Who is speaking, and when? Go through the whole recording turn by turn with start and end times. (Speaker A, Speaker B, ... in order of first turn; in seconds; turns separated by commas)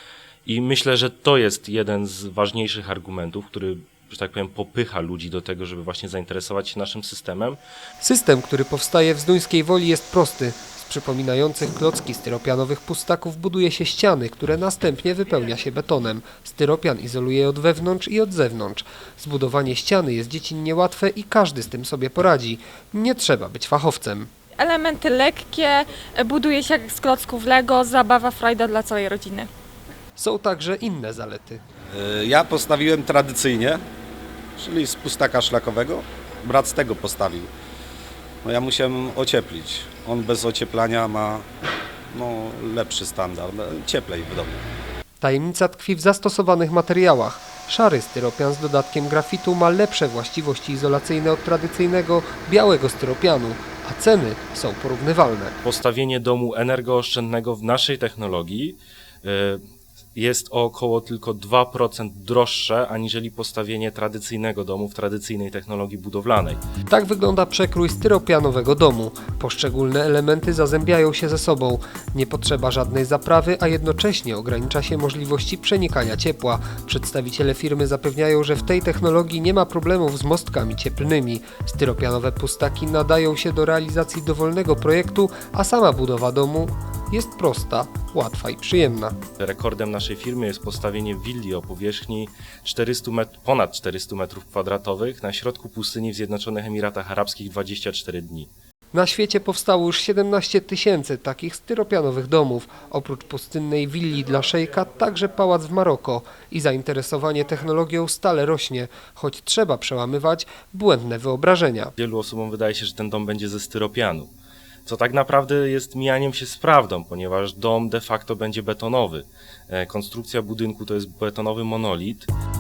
Speaker A: 0.5-7.6, Speaker B: 8.0-24.3, Speaker C: 24.6-29.5, Speaker B: 30.2-31.6, Speaker D: 31.9-33.8, Speaker D: 34.6-37.5, Speaker D: 38.4-41.4, Speaker D: 42.1-44.6, Speaker B: 45.2-55.5, Speaker A: 55.6-59.6, Speaker A: 60.1-66.6, Speaker B: 66.9-89.2, Speaker A: 89.4-98.5, Speaker B: 98.9-111.9, Speaker A: 112.0-114.3, Speaker A: 114.8-122.3